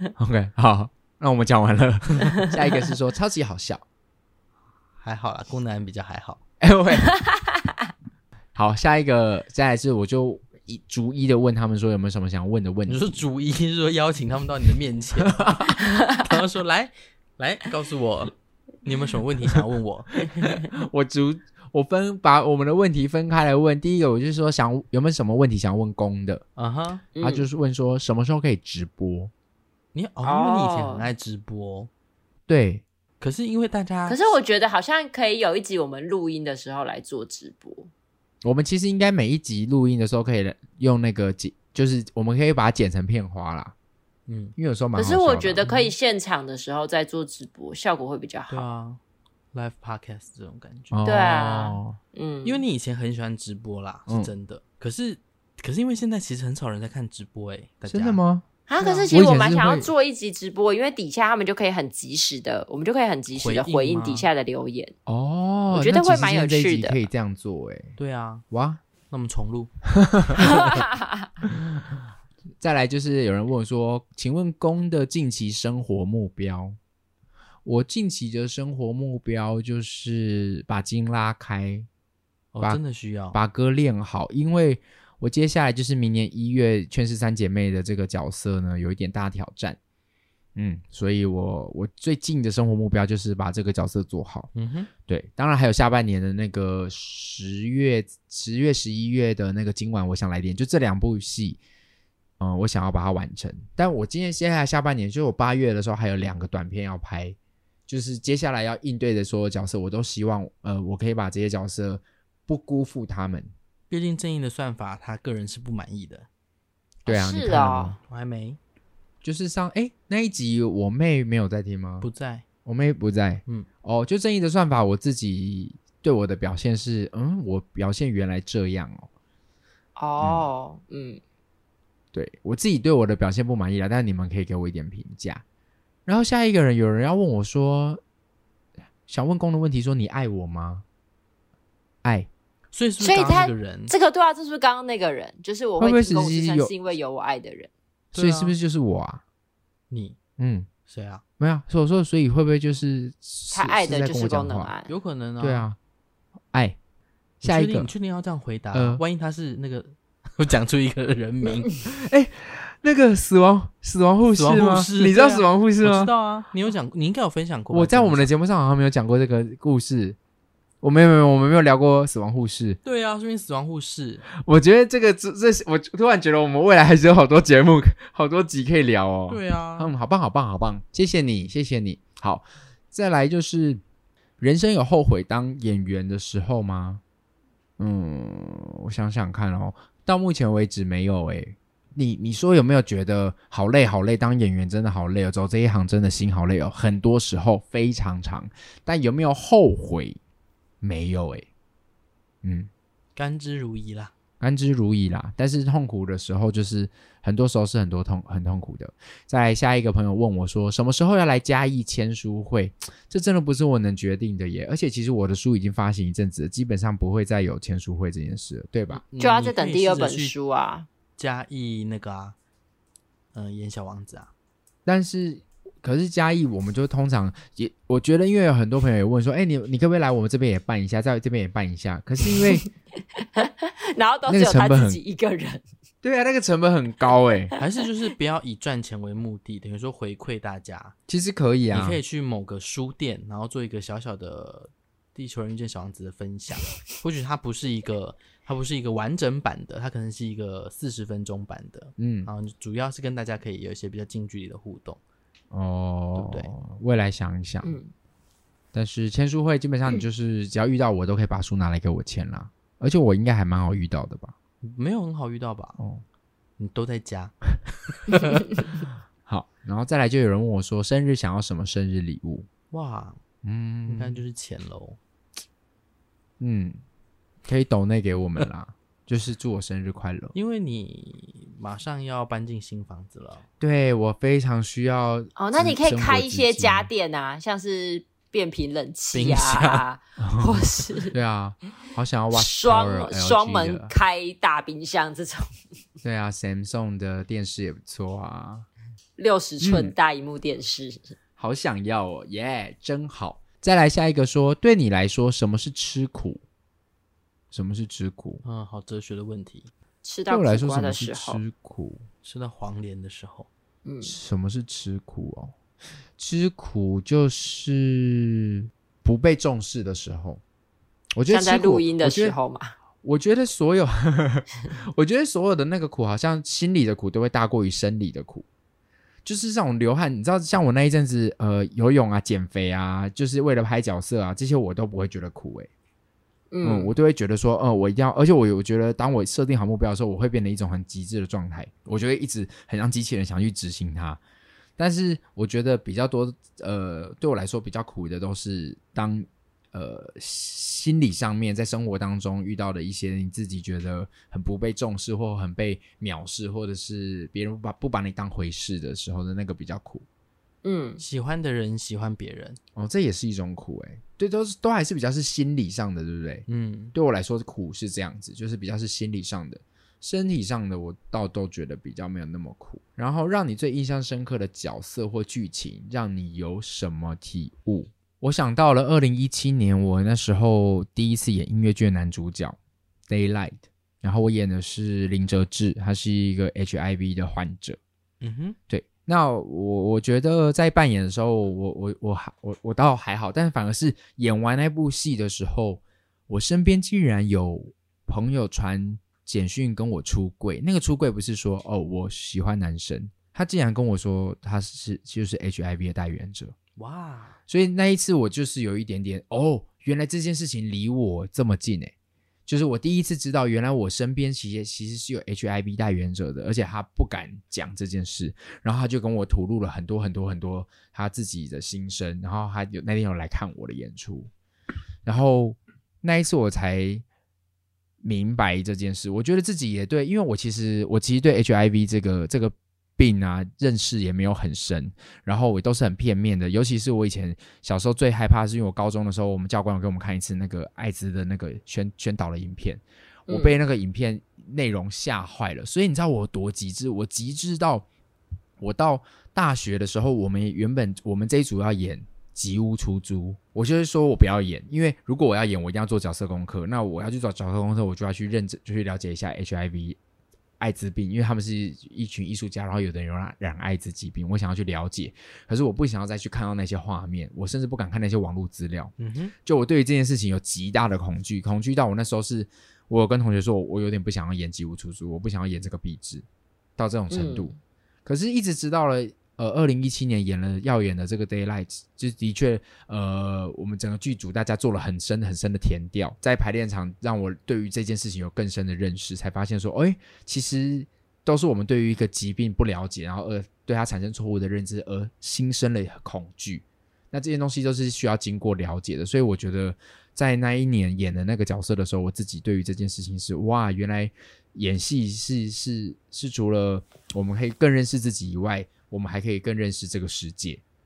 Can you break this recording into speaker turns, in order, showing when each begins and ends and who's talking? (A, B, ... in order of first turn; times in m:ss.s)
0:00.2-0:03.8 A
0:05.0-0:06.4 B
0:06.6-0:07.2 A
0:08.6-0:13.2 A
0:12.9-0:20.4 B
0:15.3-0:15.8 A
0:20.5-0:26.4 A
0:26.6-0:27.0 B
0:27.2-0:27.5 C
0:27.2-0:29.3 A
0:29.9-0:31.9 B
0:30.2-0:31.1 C
0:32.5-0:32.8 A
0:33.2-0:34.3 B
0:34.1-0:37.9 C
0:38.4-0:43.7 A
0:44.3-0:44.6 B
0:44.6-0:45.7 A
0:45.0-0:48.7 C
0:45.6-0:45.9 B
0:48.5-0:49.0 B
0:49.5-0:51.0 B
0:50.9-0:52.0 A
0:51.0-0:52.6 C
0:52.4-0:58.2 B
0:54.1-0:54.3 A
0:57.9-0:58.5 A
0:58.7-1:04.9 C
0:58.8-0:59.1 B
0:59.1-0:59.9 A
1:03.4-1:04.3 B
1:05.1-1:08.0 A
1:05.7-1:07.0 C
1:08.0-1:08.4 B
1:08.5-1:08.8 A
1:09.1-1:09.7 B
1:10.0-1:10.6 A
1:10.4-1:11.2 C
1:11.4-1:12.0 A
1:12.6-1:16.8 A
1:17.6-1:21.9 A
1:22.5-1:23.4 B
1:23.3-1:29.8 A
1:30.6-1:34.5 A
1:34.6-1:34.9 B
1:35.1-1:41.6 A
1:42.4-1:47.4 A
1:47.9-1:53.5 A
1:53.9-1:56.3 B
1:57.0-1:58.0 C
1:57.1-1:58.0 A
1:58.0-1:58.6 B
1:59.2-2:02.1 A
2:02.0-2:02.4 B
2:02.6-2:09.1 A
2:10.0-2:11.2 C
2:10.2-2:10.5 A
2:12.1-2:15.4 A
2:16.1-2:18.0 A
2:19.1-2:20.8 A
2:22.0-2:22.3 A
2:22.7-2:23.9 B
2:23.0-2:27.7 C
2:25.8-2:26.7 A
2:28.1-2:28.6 B
2:28.2-2:29.2 A
2:29.9-2:30.2 B
2:30.4-2:30.7 A
2:30.9-2:31.2 B
2:31.4-2:34.7 A
2:33.5-2:34.9 C
2:34.9-2:35.7 B
2:35.4-2:35.8 A
2:37.4-2:37.9 A
2:37.4-2:41.7 B
2:38.7-2:39.0 A
2:41.9-2:46.1 A
2:44.3-2:48.3 B
2:47.7-2:50.2 A
2:50.8-2:52.8 A
2:52.8-2:54.2 B
2:54.4-3:03.8 A
2:59.3-2:59.9 B
3:04.4-3:07.0 A
3:07.8-3:20.2 A
3:20.8-3:21.5 A
3:22.4-3:22.7 A
3:23.2-3:24.1 B
3:24.4-3:39.0 A
3:38.9-3:40.3 B
3:39.2-3:40.9 C
3:41.2-3:42.4 B
3:43.3-3:44.3 B
3:44.9-3:52.6 A
3:53.4-3:55.6 C
3:54.3-3:55.0 A
3:56.0-3:57.5 A
3:57.6-4:01.0 B
4:01.1-4:02.0 A
4:01.7-4:15.0 B
4:12.0-4:12.3 A
4:15.5-4:17.8 A
4:16.2-4:16.5 B
4:17.6-4:17.9 C
4:18.7-4:24.4 A
4:24.6-4:25.8 B
4:25.8-4:26.0 A
4:26.6-4:27.3 B
4:28.1-4:28.4 B
4:29.3-4:32.5 A
4:32.7-4:33.2 B
4:33.4-4:34.2 A
4:33.9-4:35.0 B
4:36.4-4:36.8 A
4:37.5-4:40.3 A
4:40.3-4:43.4 B
4:43.6-4:46.9 A
4:45.4-4:51.1 C
4:49.1-4:49.8 B
4:50.2-4:53.9 A
4:52.3-4:55.5 C
4:56.0-4:58.7 A
4:59.2-5:01.2 C
4:59.6-5:00.0 A
5:01.4-5:06.4 A
5:07.5-5:08.4 A
5:08.4-5:09.7 B
5:10.0-5:11.4 C
5:10.3-5:12.0 A
5:12.2-5:13.5 B
5:13.8-5:14.1 C
5:14.0-5:15.5 A
5:16.2-5:20.4 A
5:21.2-5:22.4 A
5:21.3-5:22.7 C
5:23.0-5:28.5 A
5:29.2-5:35.7 A
5:36.5-5:36.9 C
5:36.6-5:44.2 A
5:44.8-6:00.0 A
6:00.6-6:01.0 C
6:01.0-6:02.6 B
6:02.8-6:22.6 A
6:06.5-6:07.0 B
6:23.1-6:27.8 A
6:28.2-6:28.6 B
6:28.7-6:46.6 A
6:46.8-6:47.4 B
6:47.5-6:51.9 A
6:52.5-7:04.3 A
7:05.0-7:07.0 A
7:08.0-7:27.9 A
7:23.3-7:23.6 C
7:28.6-7:40.0 A
7:40.6-7:56.2 A
7:49.0-7:49.3 B
7:56.8-7:57.5 A
7:57.1-7:57.5 C
7:58.1-8:30.6 A